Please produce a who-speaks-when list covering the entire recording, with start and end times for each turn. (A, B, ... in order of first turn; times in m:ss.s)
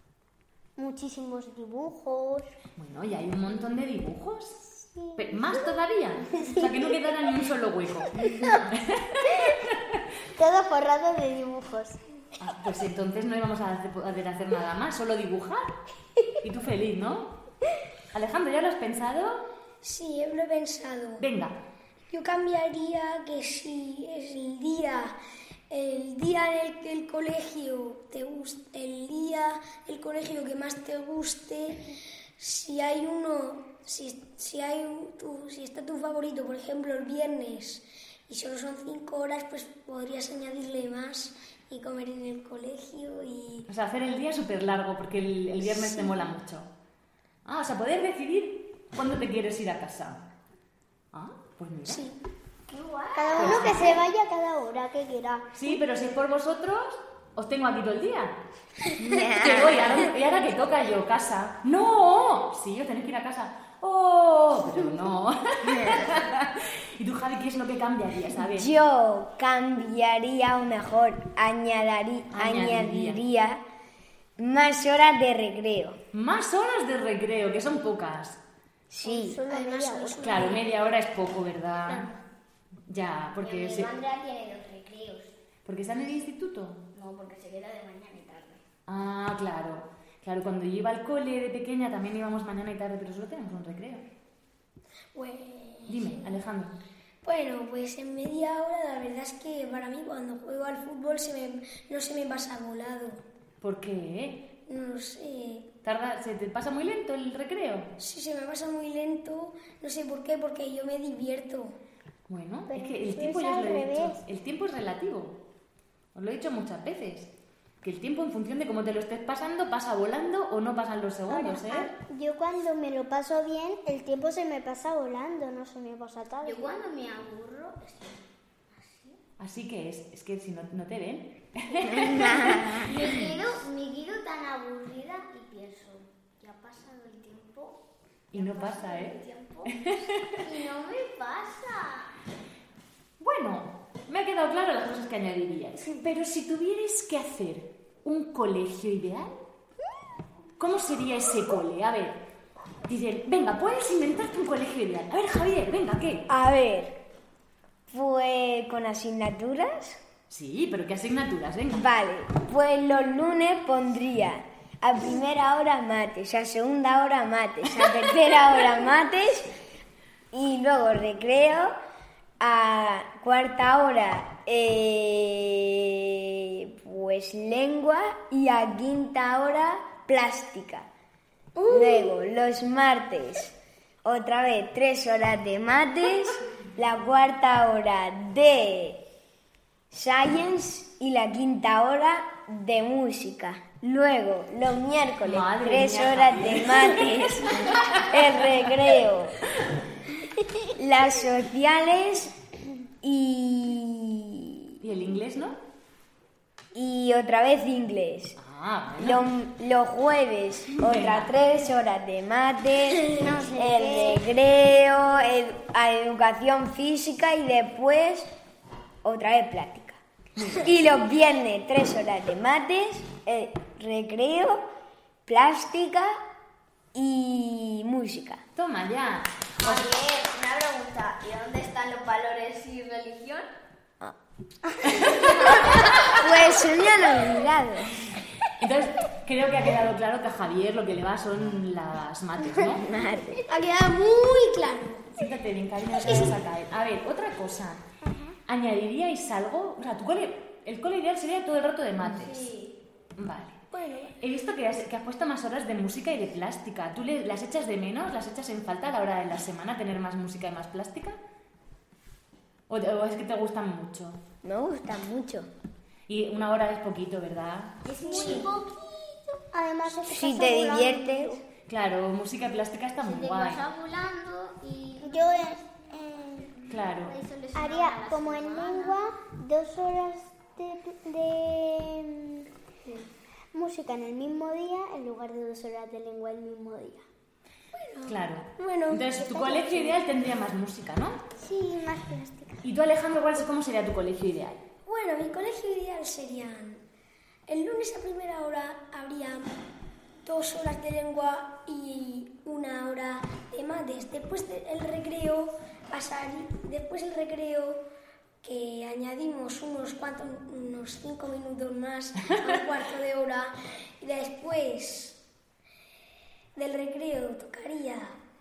0:00.8-0:02.5 A
0:02.8-0:09.9 B
0:05.0-0:05.6 A
0:06.3-0:07.1 A
0:08.2-0:08.6 A
0:09.3-0:09.6 A
0:10.4-0:12.0 A
0:12.4-0:15.7 B
0:16.4-0:17.4 B
0:18.1-0:19.4 B
0:19.8-0:21.2 C
0:21.2-0:21.6 B
0:22.1-0:25.2 C
0:25.7-0:31.9 C
0:32.4-0:43.7 C
0:43.7-0:46.7 B
0:47.4-0:50.2 B
0:51.1-0:52.0 B
0:51.9-0:52.2 C
0:52.7-0:54.0 D
0:53.1-0:55.5 A
0:53.3-0:54.0 B
0:55.5-0:58.4 B
0:59.0-1:08.7 B
0:59.0-1:00.0 E
1:05.7-1:06.1 E
1:08.4-1:13.6 E
1:12.3-1:13.2 B
1:14.4-1:16.0 E
1:16.1-1:18.4 B
1:18.9-1:19.4 E
1:19.0-1:20.7 A
1:19.5-1:20.6 C
1:20.2-1:22.1 B
1:22.9-1:23.9 B
1:23.4-1:25.3 D
1:25.6-1:26.8 B
1:26.9-1:28.6 D
1:28.9-1:34.0 B
1:35.1-1:36.2 C
1:35.9-1:36.7 B
1:37.2-1:43.2 C
1:43.6-1:44.4 B
1:44.7-1:45.7 C
1:45.8-1:47.9 B
1:48.0-1:51.7 C
1:52.3-1:55.4 B
1:52.7-1:54.2 A
1:56.1-1:57.3 B
1:57.8-2:01.9 B
2:01.3-2:06.8 A
2:06.4-2:09.2 D
2:09.4-2:13.0 B
2:12.0-2:12.8 E
2:12.6-2:17.8 D
2:18.3-2:20.4 B
2:18.3-2:22.1 D
2:23.2-2:29.3 B
2:30.6-2:32.2 B
2:32.9-2:36.3 B
2:36.3-2:37.0 E
2:37.9-2:40.0 E
2:40.3-2:41.9 B
2:41.7-2:49.5 E
2:50.3-2:51.7 E
2:52.4-3:00.9 E
3:01.6-3:02.1 C
3:01.7-3:09.0 E
3:09.9-3:19.4 E
3:15.2-3:18.0 B
3:20.7-3:22.3 E
3:23.0-3:24.7 E
3:24.8-3:25.6 B
3:26.7-3:28.4 E
3:28.4-3:29.3 B
3:29.0-3:38.3 E
3:30.8-3:31.3 B
3:33.0-3:34.2 A
3:39.0-3:40.0 E
3:40.4-3:40.7 B
3:40.5-3:44.6 E
3:45.2-3:46.2 E
3:46.9-3:48.4 E
3:48.6-3:49.9 B
3:49.6-3:53.5 D
3:54.9-3:55.6 B
3:55.5-3:56.1 D
3:56.1-3:58.1 E
3:58.5-4:02.9 B
4:02.4-4:03.4 E
4:03.5-4:05.2 C
4:05.1-4:07.8 B
4:06.0-4:06.3 C
4:08.1-4:08.3 A
4:08.5-4:12.5 B
4:12.0-4:12.8 D
4:13.2-4:13.6 B
4:13.7-4:14.2 C
4:14.2-4:21.2 B
4:22.7-4:24.2 B
4:24.4-4:25.5 E
4:26.1-4:27.8 B
4:27.8-4:29.4 D
4:28.0-4:28.6 A
4:28.1-4:28.5 E
4:29.5-4:31.4 A
4:30.0-4:31.4 E
4:31.7-4:33.6 B
4:33.0-4:35.8 D
4:35.0-4:36.5 A
4:36.7-4:37.1 B
4:36.7-4:39.0 D
4:37.5-4:42.4 A
4:43.5-4:47.0 A
4:47.7-4:50.0 C
4:48.0-4:51.2 B
4:51.4-4:52.6 A
4:52.6-4:54.6 B
4:54.9-4:56.8 C
4:57.5-4:59.5 C
5:00.2-5:07.8 C
5:08.4-5:15.2 C
5:16.6-5:18.2 C